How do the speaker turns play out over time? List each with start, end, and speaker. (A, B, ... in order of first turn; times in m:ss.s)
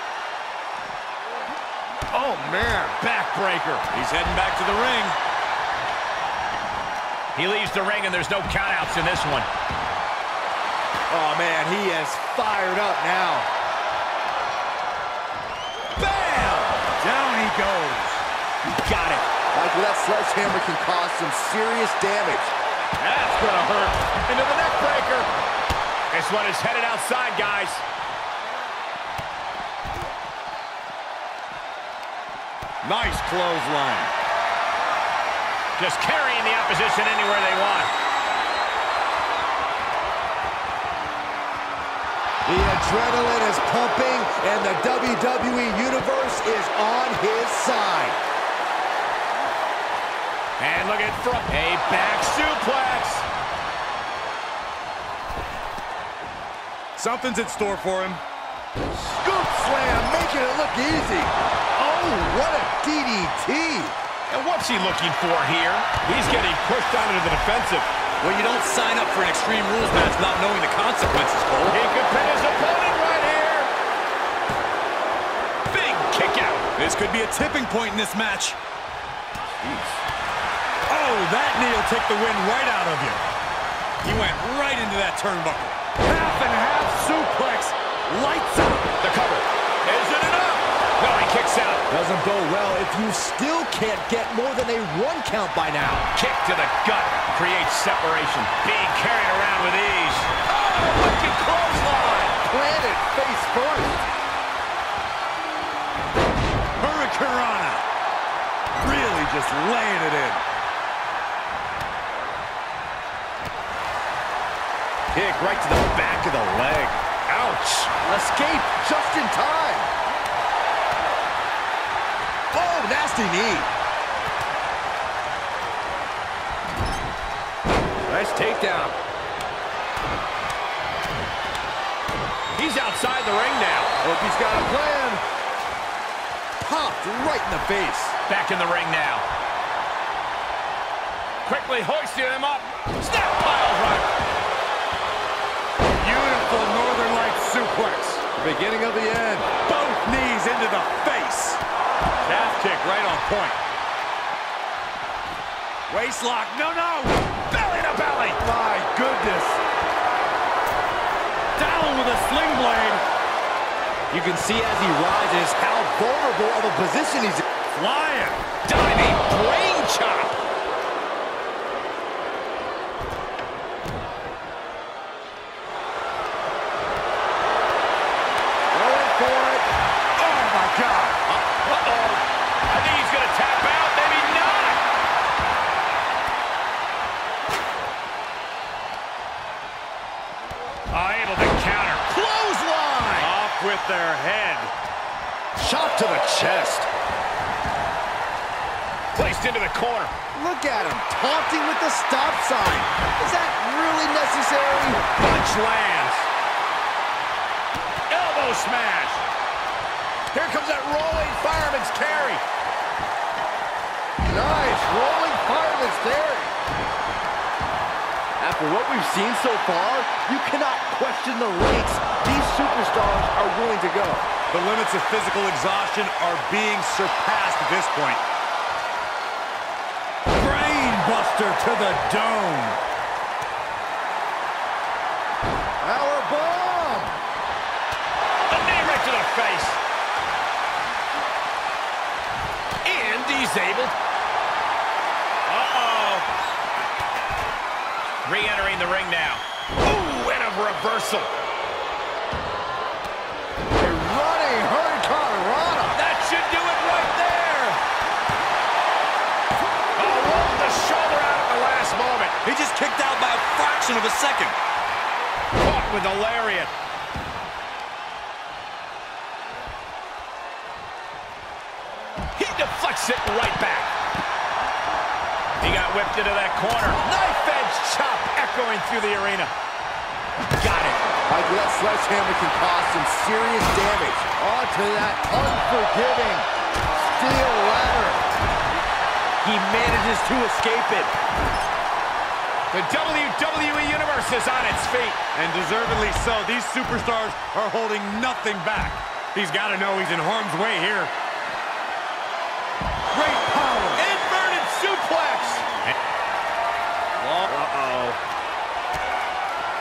0:02.1-0:03.8 A
0:03.9-0:05.2 B
0:07.3-0:09.5 A
0:11.1-0:13.5 C
0:16.0-0:18.2 B
0:18.6-0:19.3 A
0:19.5-0:22.5 C
0:23.0-0:25.3 A
0:26.1-0:27.8 A
0:32.8-0:34.1 B
0:35.8-0:37.9 A
0:42.4-0:48.2 C
0:50.6-0:53.2 A
0:57.0-0:58.2 B
0:58.9-1:03.9 C
1:04.3-1:07.9 A
1:08.2-1:11.8 B
1:11.7-1:13.7 A
1:15.7-1:16.7 A
1:16.8-1:18.6 B
1:20.9-1:23.2 B
1:24.0-1:28.9 B
1:29.0-1:31.9 A
1:31.9-1:36.0 C
1:36.1-1:40.3 A
1:40.5-1:44.0 C
1:46.8-1:47.8 B
1:48.8-1:50.4 B
1:55.1-1:57.9 A
1:57.9-1:59.9 C
2:02.5-2:03.7 C
2:08.1-2:08.9 C
2:08.1-2:08.9 B
2:12.5-2:14.0 A
2:14.0-2:15.2 C
2:16.6-2:18.2 C
2:18.3-2:19.2 A
2:21.4-2:24.1 A
2:26.0-2:28.2 B
2:28.3-2:29.5 C
2:29.6-2:31.6 B
2:32.2-2:33.6 B
2:35.9-2:37.2 B
2:37.5-2:38.4 A
2:38.4-2:39.6 C
2:41.6-2:43.0 B
2:44.1-2:47.4 C
2:47.7-2:48.4 B
2:48.6-2:50.4 A
2:58.7-2:59.7 C
3:00.2-3:01.1 B
3:01.3-3:04.8 A
3:10.9-3:12.1 A
3:12.1-3:13.3 C
3:13.2-3:14.7 B
3:15.6-3:16.9 C
3:19.1-3:20.1 A
3:20.3-3:25.0 C
3:25.2-3:26.3 A
3:28.1-3:29.2 A
3:30.3-3:32.4 A
3:34.2-3:36.5 C
3:38.4-3:44.3 C
3:44.5-3:48.2 B
3:50.3-3:52.8 B
3:55.8-3:57.2 C
3:58.5-3:59.8 A
4:02.8-4:03.9 A
4:05.4-4:06.3 A
4:08.2-4:11.3 A
4:13.8-4:16.0 C
4:15.9-4:17.8 A
4:20.0-4:22.4 A
4:22.4-4:24.6 B
4:25.6-4:26.7 A
4:32.3-4:33.9 A
4:35.6-4:39.5 A
4:40.6-4:41.0 A
4:41.3-4:48.2 C
4:49.4-4:51.1 C
4:52.7-4:55.2 A
4:55.3-5:01.1 B
5:03.1-5:04.0 B
5:04.0-5:05.9 A
5:07.3-5:08.2 A